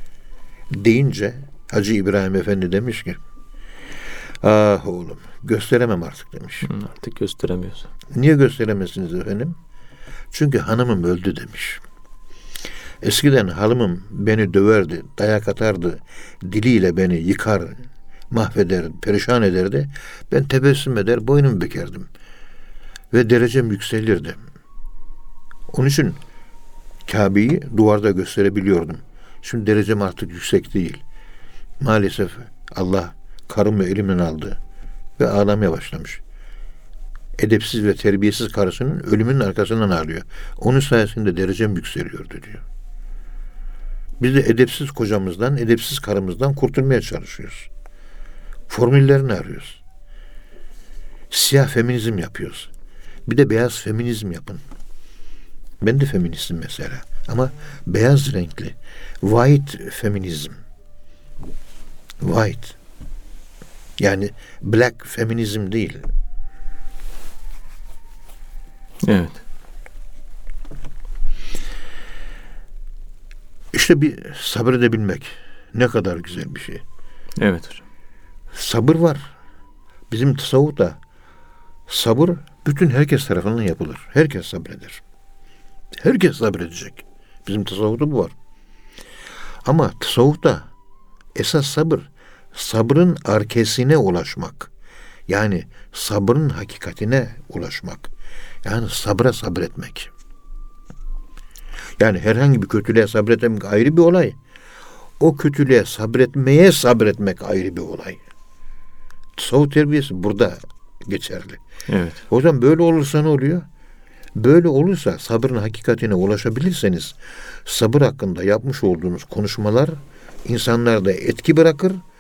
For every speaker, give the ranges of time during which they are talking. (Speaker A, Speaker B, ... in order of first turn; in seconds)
Speaker A: 0.7-3.2, 4.4-6.7, 8.1-9.6, 10.3-11.8, 13.0-22.1, 23.1-24.4, 25.7-26.2, 27.1-31.0, 31.8-34.6, 35.2-36.2, 37.4-42.6, 44.2-47.7, 48.7-49.8, 51.3-52.7, 53.2-54.6, 55.8-60.6, 62.2-62.8, 64.0-66.1, 73.7-76.8, 78.5-79.3, 80.1-81.0, 81.9-85.0, 86.0-88.3, 89.6-90.7, 91.3-94.7, 95.3-98.1, 98.6-100.1, 102.0-104.4, 105.2-108.2, 109.4-111.6, 112.3-113.6, 114.4-122.0
Speaker B: 6.6-7.9, 69.0-69.4, 77.4-77.8, 111.9-112.2